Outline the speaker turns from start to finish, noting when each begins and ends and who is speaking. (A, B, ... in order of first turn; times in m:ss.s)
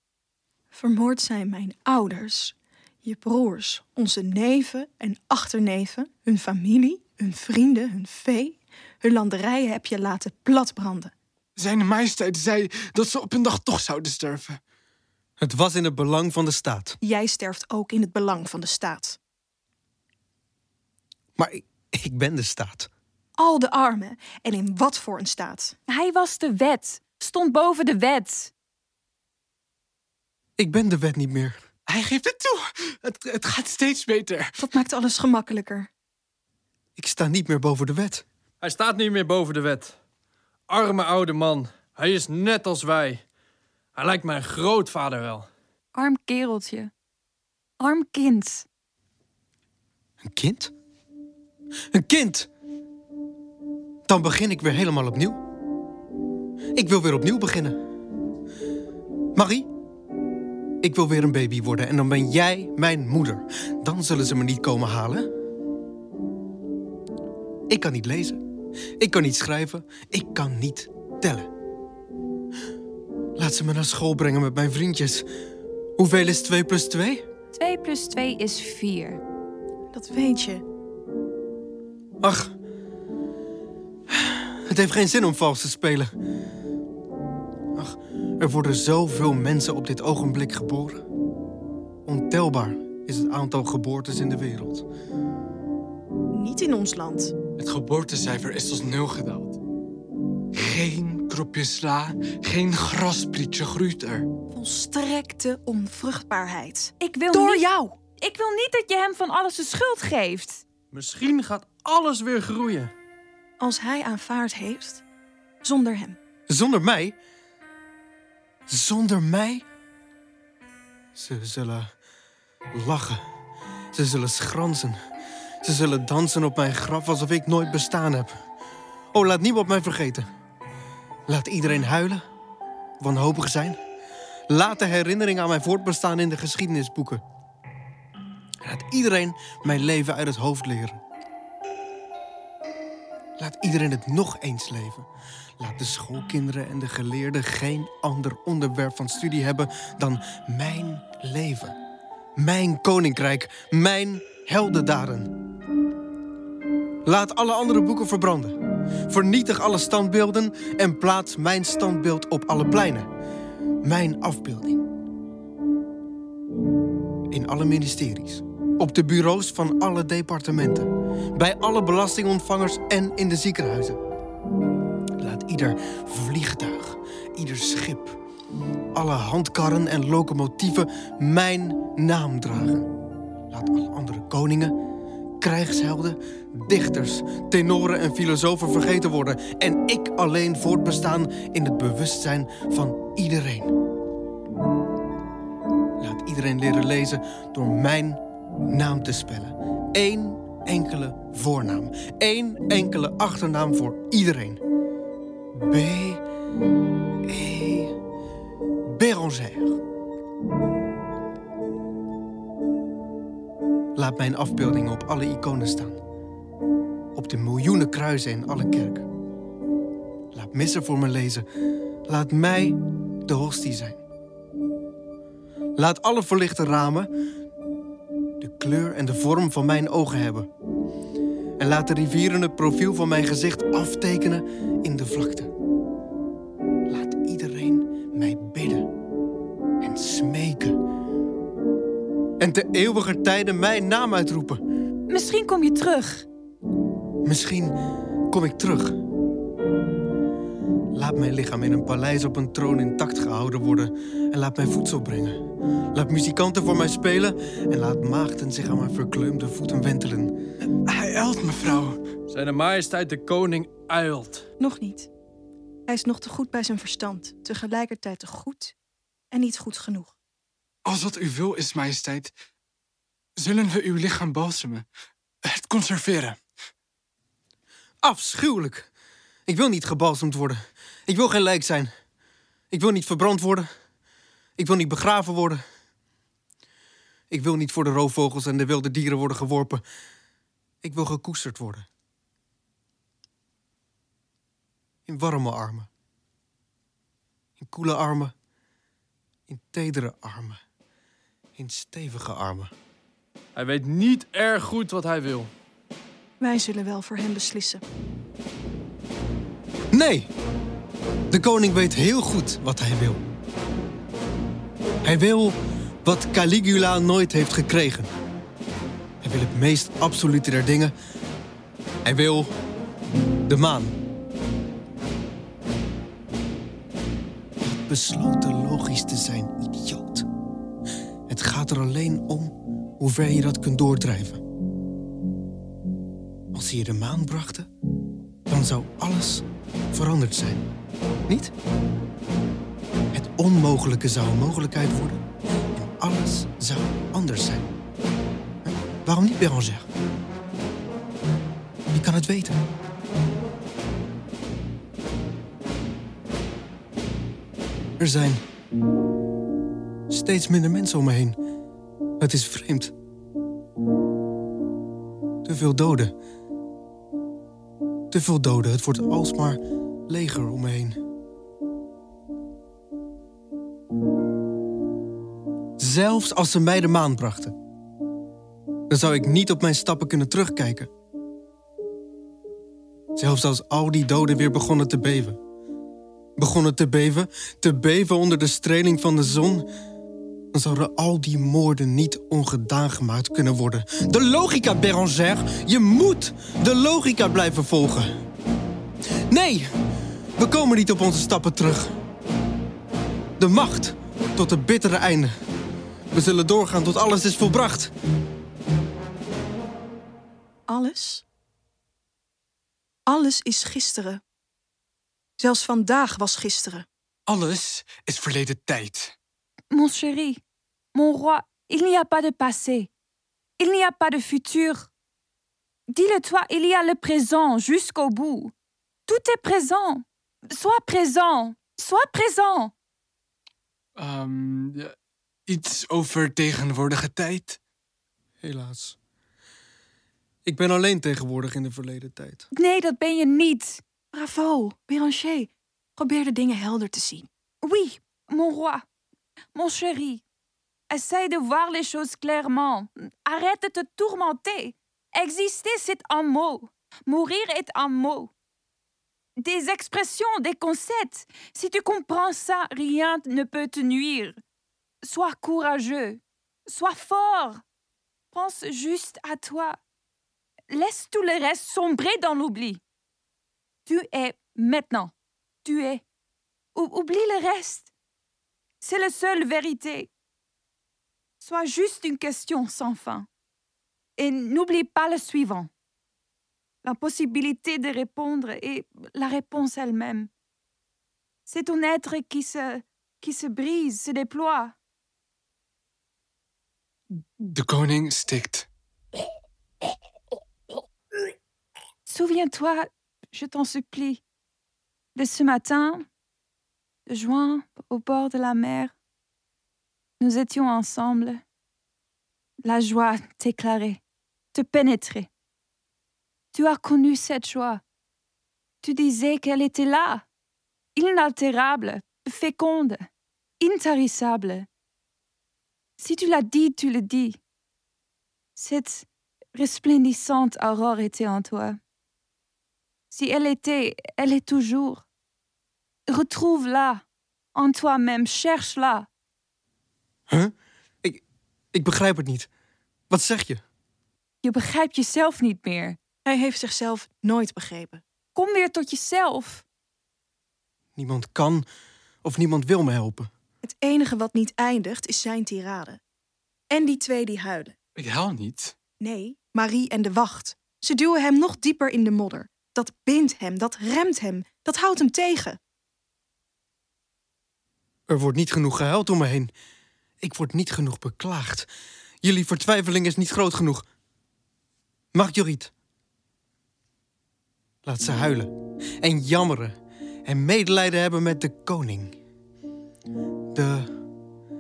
0:00.7-0:11.1 A
0:11.6-0:14.6 B
0:15.4-0:17.0 C
0:17.0-0:19.2 A
0:21.4-0:22.9 C
0:23.4-0:25.8 A
0:25.9-0:28.5 D
0:30.6-0:31.6 C
0:31.9-0:34.6 B
0:34.6-0:35.9 A
0:37.0-0:38.2 C
0:38.6-0:39.9 E
0:40.7-0:43.2 E
0:44.0-0:45.5 E
0:46.0-0:46.9 D
0:47.8-0:48.7 D
0:50.2-0:50.7 C
0:51.9-0:52.5 C
0:54.1-0:55.4 C
0:56.8-0:57.8 C
0:59.4-0:59.7 C
1:00.8-1:05.3 C
1:07.7-1:08.4 C
1:09.0-1:11.5 C
1:13.4-1:15.3 C
1:16.0-1:17.3 C
1:17.5-1:19.2 D
1:19.9-1:20.6 A
1:22.2-1:22.5 C
1:24.1-1:26.1 C
1:27.8-1:31.0 C
1:32.1-1:34.9 C
1:36.3-1:37.4 A
1:37.6-1:39.6 B
1:40.5-1:44.3 B
1:44.5-1:48.0 A
1:47.0-1:47.6 D
1:48.2-1:50.6 D
1:50.9-1:52.9 E
1:53.6-1:55.0 A
1:55.6-1:56.2 A
1:56.5-1:57.2 C
1:58.7-1:59.6 C
2:01.2-2:01.9 C
2:02.7-2:03.2 C
2:03.9-2:05.0 C
2:05.6-2:08.4 C
2:09.1-2:10.3 C
2:11.3-2:12.2 C
2:13.0-2:13.8 C
2:14.5-2:17.2 C
2:18.6-2:21.0 C
2:23.4-2:25.1 C
2:25.6-2:31.8 C
2:32.4-2:35.3 C
2:37.0-2:43.1 C
2:43.8-2:44.8 C
2:47.3-2:54.0 C
2:55.2-2:58.2 C
2:58.9-3:02.9 C
3:03.5-3:04.8 C
3:05.4-3:13.7 C
3:16.0-3:24.6 C
3:25.6-3:26.2 C
3:27.2-3:28.0 C
3:28.9-3:29.8 C
3:34.0-3:36.0 C
3:37.2-3:39.1 C
3:40.3-3:41.5 C
3:42.1-3:44.0 C
3:45.8-3:47.1 C
3:48.4-3:50.5 C
3:51.6-3:55.5 C
3:56.9-3:58.9 C
3:59.8-4:00.8 C
4:02.4-4:04.6 C
4:05.1-4:06.3 D
4:07.2-4:07.8 C
4:08.3-4:09.0 C
4:10.9-4:15.4 C
4:15.9-4:20.3 C
4:20.9-4:22.0 B
4:22.3-4:24.5 E
4:24.6-4:25.1 A
4:25.9-4:28.8 A
4:29.3-4:30.2 A
4:30.8-4:32.3 B
4:33.4-4:34.8 B
4:35.4-4:36.4 B
4:38.0-4:38.9 C
4:39.5-4:41.9 C
4:42.7-4:43.7 C
4:44.6-4:45.6 C
4:47.3-4:49.8 C
4:50.8-4:51.9 C
4:55.1-4:55.9 C
4:57.6-4:58.3 C
4:59.5-5:00.6 C
5:01.6-5:02.7 C
5:03.6-5:05.5 E
5:06.4-5:07.8 A
5:09.9-5:10.3 C
5:11.3-5:13.2 C
5:15.0-5:18.1 C
5:19.2-5:20.9 C
5:22.0-5:22.5 C
5:23.5-5:24.0 C
5:27.6-5:30.3 C
5:31.3-5:34.4 C
5:36.5-5:37.7 C
5:38.5-5:40.6 C
5:41.3-5:41.5 C
5:43.1-5:47.7 C
5:48.6-5:49.9 C
5:51.9-5:52.6 C
5:58.0-5:58.4 C
6:00.1-6:01.4 C
6:02.2-6:02.9 C
6:05.4-6:06.1 C
6:08.1-6:11.0 C
6:15.8-6:17.6 C
6:18.9-6:20.9 C
6:23.2-6:25.4 C
6:26.4-6:29.7 C
6:30.5-6:38.1 C
6:39.3-6:39.7 C
6:40.4-6:41.9 C
6:43.4-6:45.3 C
6:46.1-6:47.9 C
6:50.7-6:51.2 A
6:53.1-6:54.2 A
6:55.4-6:56.9 A
6:57.3-6:59.2 B
6:59.7-7:00.4 D
7:00.9-7:02.9 D
7:03.6-7:04.9 D
7:05.9-7:08.5 D
7:09.1-7:12.7 D
7:14.0-7:14.9 B
7:15.5-7:17.6 B
7:18.4-7:19.0 C
7:20.5-7:22.5 C
7:22.5-7:23.8 D
7:24.1-7:27.3 A
7:27.6-7:28.8 D
7:29.6-7:30.2 D
7:30.9-7:38.3 D
7:39.4-7:44.4 D
7:45.0-7:47.6 D
7:48.3-7:49.8 D
7:50.7-7:52.8 D
7:53.9-7:55.1 D
7:55.6-7:56.0 D
7:56.8-7:57.9 D
7:58.8-8:00.1 D
8:01.4-8:03.3 D
8:04.2-8:05.7 D
8:06.8-8:10.3 D
8:11.5-8:14.8 D
8:17.1-8:18.7 B
8:22.1-8:24.2 D
8:25.2-8:26.1 D
8:27.1-8:28.9 D
8:30.2-8:31.4 D
8:32.6-8:34.0 D
8:34.5-8:35.3 D
8:36.5-8:37.8 D
8:38.8-8:40.3 D
8:41.0-8:43.1 D
8:43.6-8:44.7 D
8:46.0-8:47.4 D
8:48.6-8:51.8 D
8:53.1-8:55.0 D
8:56.1-8:57.0 D
8:57.6-8:59.1 D
9:00.3-9:01.2 C
9:01.7-9:02.5 C
9:03.1-9:03.6 C
9:04.4-9:06.0 D
9:06.2-9:08.0 A
9:08.4-9:09.6 D
9:11.0-9:11.7 C
9:12.2-9:13.3 C
9:13.6-9:16.0 A
9:16.7-9:17.8 A
9:18.0-9:18.8 B
9:19.0-9:25.6 A
9:28.1-9:29.5 C
9:30.2-9:31.7 C
9:32.2-9:33.9 C
9:35.1-9:35.7 C
9:37.8-9:42.2 C
9:43.5-9:43.9 C